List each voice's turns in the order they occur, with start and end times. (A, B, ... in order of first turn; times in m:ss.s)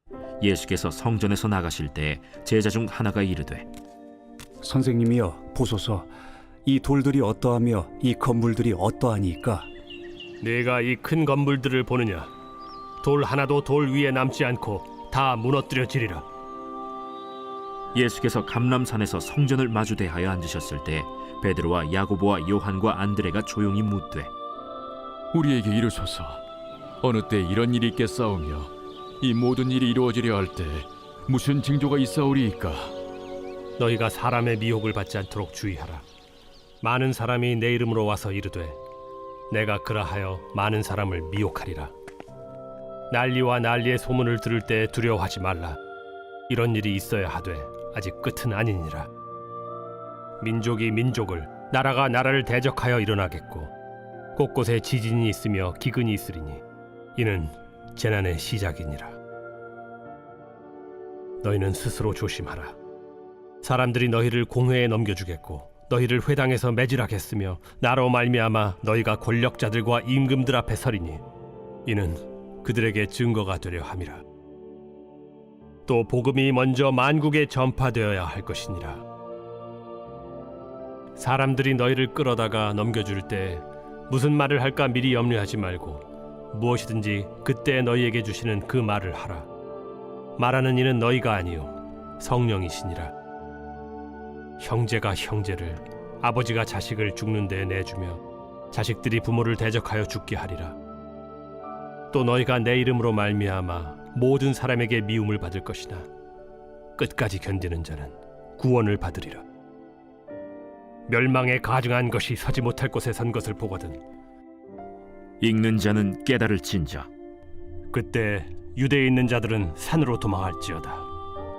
0:00.4-0:03.7 A
0:04.6-0:06.1 B
0:06.6-0:09.7 B
0:10.4-0:12.3 C
0:13.0-0:16.2 C
0:18.0-0:24.3 A
0:25.3-0:26.4 D
0:27.0-0:32.9 D
0:33.8-0:36.0 C
0:36.8-0:38.8 C
0:39.5-0:41.9 C
0:43.1-0:45.8 C
0:46.5-0:49.1 C
0:50.4-0:53.7 C
0:54.4-0:56.6 C
0:57.2-0:59.2 C
1:01.4-1:02.8 C
1:03.6-1:11.2 C
1:11.9-1:14.2 C
1:15.9-1:19.0 C
1:21.2-1:29.5 C
1:30.4-1:33.1 C
1:34.6-1:40.8 C
1:42.1-1:46.1 C
1:47.0-1:49.4 C
1:51.1-1:54.0 C
1:55.4-1:57.1 A
1:57.9-2:01.1 C